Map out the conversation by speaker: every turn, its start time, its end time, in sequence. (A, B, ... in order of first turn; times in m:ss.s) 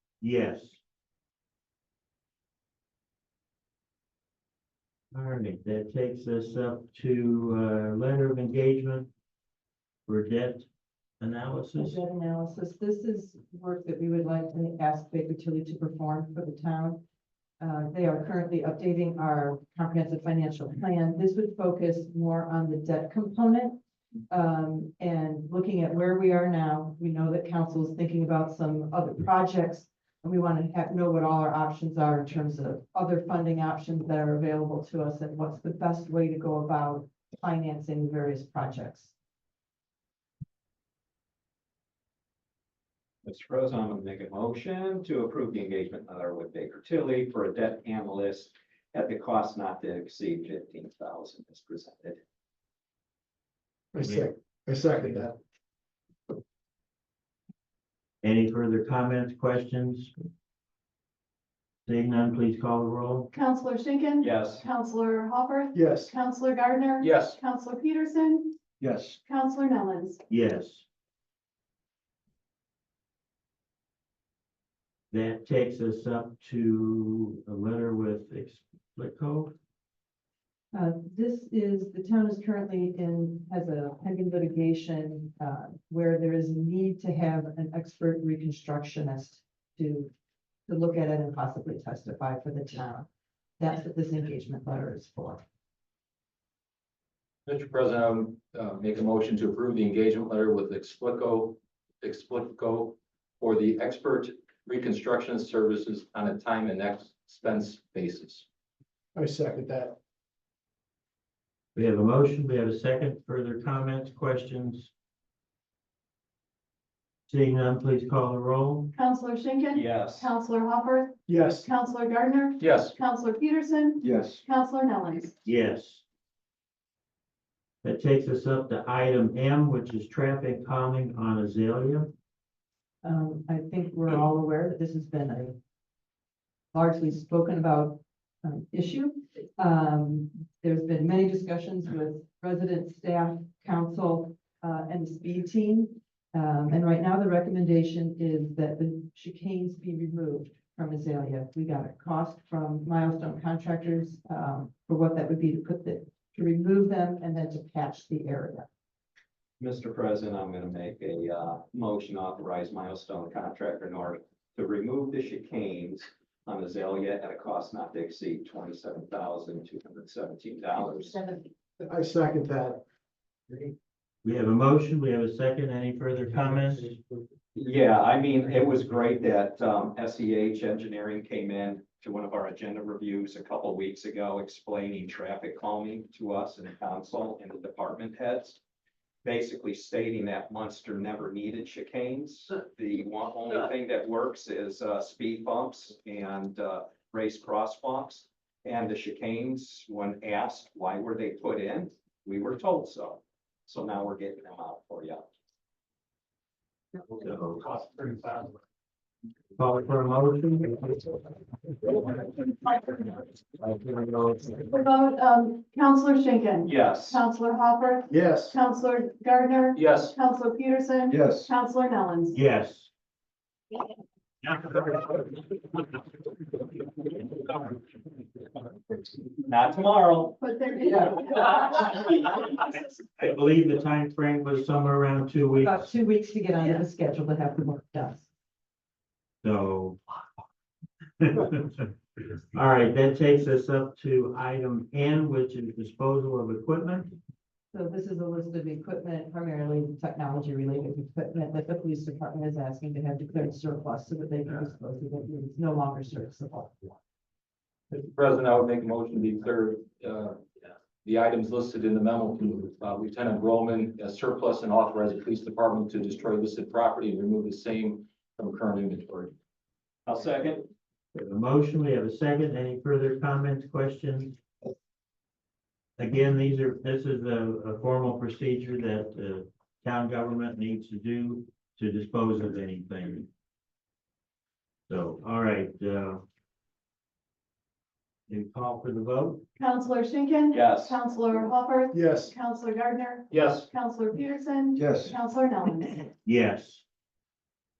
0:00.2-0:00.8 A
0:05.1-0:09.1 A
0:10.1-0:10.7 A
0:11.2-0:12.0 A
0:11.7-0:17.0 B
0:17.6-0:39.1 B
0:43.2-0:52.2 C
0:53.9-0:55.4 D
0:54.0-0:54.3 A
0:58.2-1:00.1 A
1:01.8-1:03.3 A
1:03.3-1:08.6 E
1:04.2-1:04.6 C
1:05.7-1:06.1 D
1:07.0-1:07.4 F
1:08.8-1:09.2 D
1:09.2-1:10.2 E
1:10.3-1:10.8 A
1:15.1-1:19.5 A
1:20.7-1:30.1 B
1:30.7-1:33.1 B
1:33.6-1:35.4 B
1:37.4-1:48.4 F
1:49.1-1:50.0 D
1:51.7-1:54.9 A
1:57.3-1:58.9 A
1:58.9-2:05.4 E
1:59.7-2:00.3 C
2:01.3-2:01.7 D
2:02.6-2:03.0 F
2:04.0-2:04.4 D
2:05.4-2:06.0 A
2:07.8-2:12.1 A
2:13.0-2:15.6 B
2:16.7-2:38.7 B
2:39.6-2:51.4 C
2:51.8-2:52.8 D
2:54.2-2:57.0 A
2:57.5-3:08.6 C
3:09.2-3:25.3 C
3:27.2-3:27.8 A
3:29.6-3:31.2 A
3:31.8-3:32.2 A
3:33.6-3:34.6 A
3:34.7-3:42.4 E
3:36.6-3:37.2 C
3:38.1-3:38.6 D
3:39.8-3:40.2 F
3:41.1-3:41.5 D
3:42.3-3:42.9 A
3:44.4-3:45.3 A
3:49.4-3:50.4 C
3:50.4-3:51.6 E
3:53.2-3:55.9 A
3:55.6-3:58.3 B
3:59.4-4:00.0 A
4:01.2-4:01.9 A
4:02.5-4:07.1 A
4:07.7-4:16.9 B
4:17.9-4:20.4 F
4:21.0-4:29.3 F
4:30.0-4:30.7 C
4:31.1-4:34.4 A
4:36.0-4:43.3 A
4:44.9-4:46.2 A
4:48.3-4:49.4 A
4:49.6-4:56.1 E
4:50.5-4:51.0 C
4:51.9-4:52.3 D
4:53.3-4:53.7 F
4:54.8-4:55.2 D
4:56.2-4:56.8 A